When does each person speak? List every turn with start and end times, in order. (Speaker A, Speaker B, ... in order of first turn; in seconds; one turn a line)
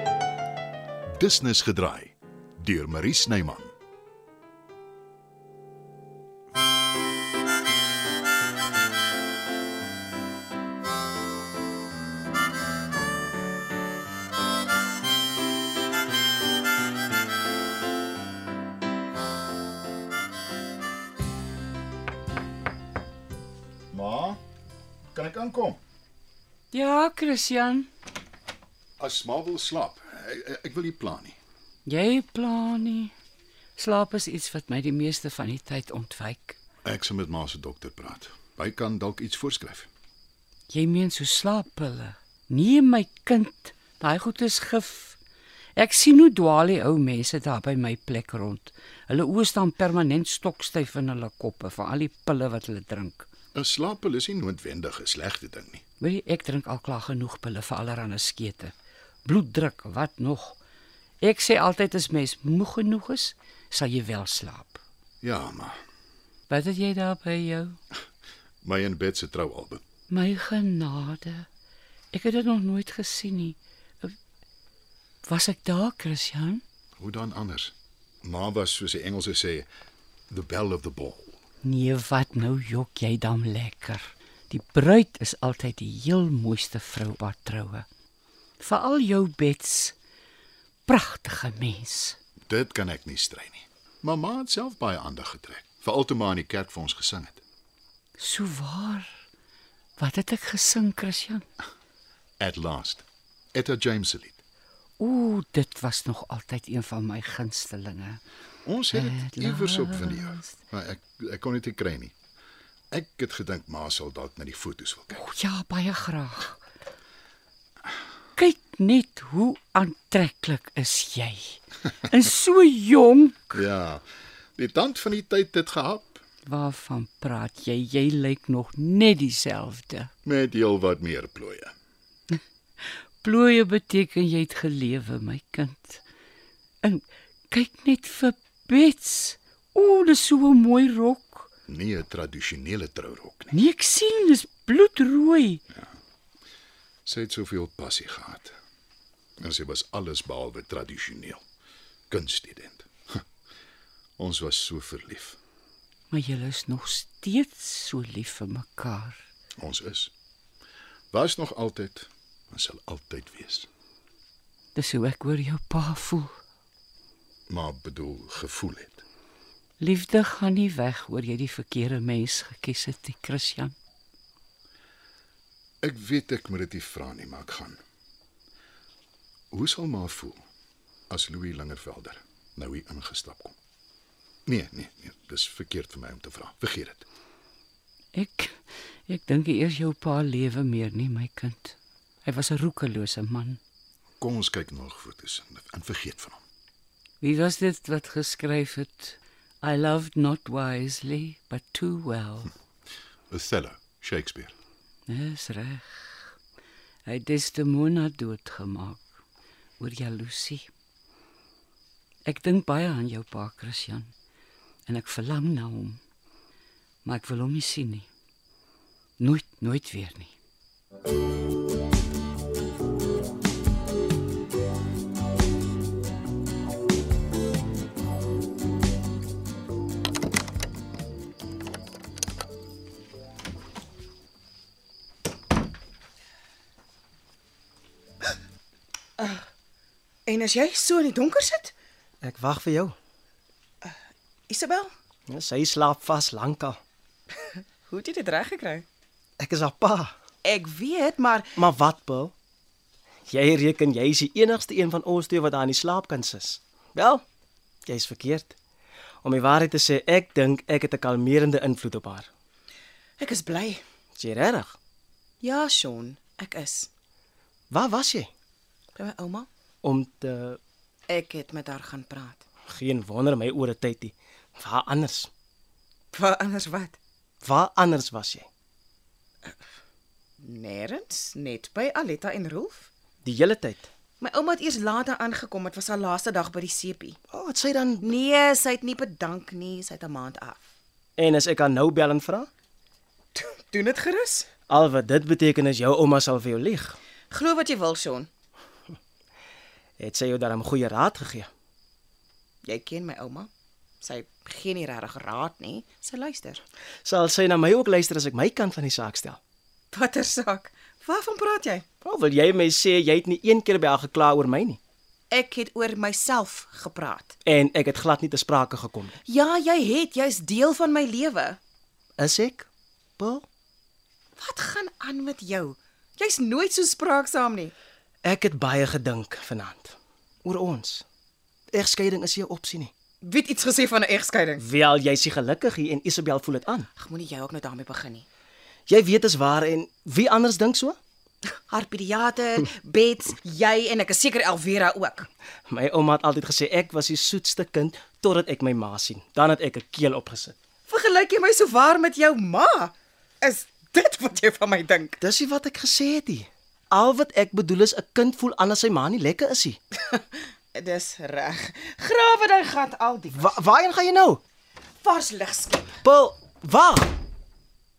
Speaker A: 1.2-3.7
Speaker A: 23.9-24.4
Speaker A: 25.1-25.8
Speaker B: 26.7-27.9
Speaker A: 29.0-31.4
Speaker B: 31.9-33.1
Speaker B: 33.8-36.6
Speaker A: 36.8-39.9
Speaker B: 40.7-45.2
Speaker B: 45.8-53.2
Speaker A: 53.5-55.8
Speaker B: 56.0-58.7
Speaker B: 59.2-60.6
Speaker B: 61.2-64.8
Speaker A: 65.2-65.8
Speaker B: 66.5-67.8
Speaker A: 68.6-69.8
Speaker B: 70.1-71.5
Speaker B: 72.1-74.1
Speaker B: 75.2-76.6
Speaker A: 77.0-79.7
Speaker A: 80.3-81.2
Speaker B: 81.6-87.8
Speaker B: 88.6-90.0
Speaker B: 90.9-92.2
Speaker A: 92.5-97.4
Speaker B: 98.2-99.1
Speaker B: 100.0-101.4
Speaker A: 102.4-104.4
Speaker B: 105.0-108.2
Speaker A: 108.6-112.1
Speaker B: 108.9-110.5
Speaker A: 112.9-115.2
Speaker B: 115.2-116.6
Speaker B: 118.4-123.6
Speaker A: 123.5-124.0
Speaker A: 124.5-126.2
Speaker B: 126.4-130.1
Speaker A: 130.2-131.7
Speaker B: 133.2-136.0
Speaker B: 136.8-141.5
Speaker A: 141.7-143.6
Speaker B: 143.5-145.6
Speaker A: 147.1-148.5
Speaker A: 149.4-151.4
Speaker A: 152.1-153.2
Speaker A: 154.2-155.4
Speaker B: 156.1-159.2
Speaker A: 159.6-160.1
Speaker A: 161.1-163.7
Speaker B: 164.7-166.4
Speaker A: 167.5-169.0
Speaker B: 169.8-173.7
Speaker A: 175.8-177.8
Speaker A: 179.5-180.4
Speaker A: 181.1-183.5
Speaker A: 184.4-187.1
Speaker B: 188.1-193.6
Speaker A: 194.2-196.4
Speaker B: 197.2-202.5
Speaker A: 203.3-204.5
Speaker B: 205.1-206.3
Speaker B: 207.1-209.1
Speaker B: 209.8-210.7
Speaker B: 212.2-214.1
Speaker B: 214.9-216.0
Speaker B: 217.0-218.1
Speaker B: 219.2-220.3
Speaker C: 239.2-239.4
Speaker C: 240.2-241.7
Speaker D: 242.2-242.9
Speaker C: 244.5-244.9
Speaker D: 245.3-246.8
Speaker C: 247.6-248.8
Speaker D: 249.4-250.1
Speaker C: 250.4-251.5
Speaker D: 251.5-252.3
Speaker D: 253.3-257.2
Speaker D: 257.9-258.6
Speaker D: 259.2-262.3
Speaker C: 263.2-263.8
Speaker D: 264.1-264.8
Speaker C: 265.4-266.9
Speaker D: 267.7-268.3
Speaker C: 269.0-269.5
Speaker D: 269.8-270.6
Speaker C: 271.1-272.4
Speaker D: 272.6-275.3
Speaker C: 276.1-277.0
Speaker D: 277.4-278.5
Speaker C: 280.4-282.9
Speaker D: 283.2-283.9
Speaker C: 284.2-287.2
Speaker D: 287.3-288.1
Speaker C: 288.0-290.7
Speaker D: 291.2-292.5
Speaker C: 293.3-294.5
Speaker D: 294.7-297.0
Speaker C: 297.3-298.3
Speaker D: 300.0-301.5
Speaker C: 302.6-303.5
Speaker C: 304.0-306.6
Speaker D: 307.0-309.4
Speaker C: 309.9-311.8
Speaker D: 312.0-314.8
Speaker C: 315.3-317.4
Speaker D: 317.4-319.2
Speaker C: 319.2-321.6
Speaker D: 322.2-323.4
Speaker C: 324.4-327.7
Speaker D: 328.2-331.0
Speaker D: 331.7-332.9
Speaker C: 333.2-334.6
Speaker D: 334.6-336.9
Speaker C: 336.9-338.2
Speaker D: 338.9-341.0
Speaker C: 341.7-345.3
Speaker D: 345.7-350.5
Speaker C: 350.9-355.2
Speaker D: 355.2-359.8
Speaker C: 360.1-363.5
Speaker D: 363.3-364.4
Speaker C: 365.0-366.0
Speaker D: 366.0-367.1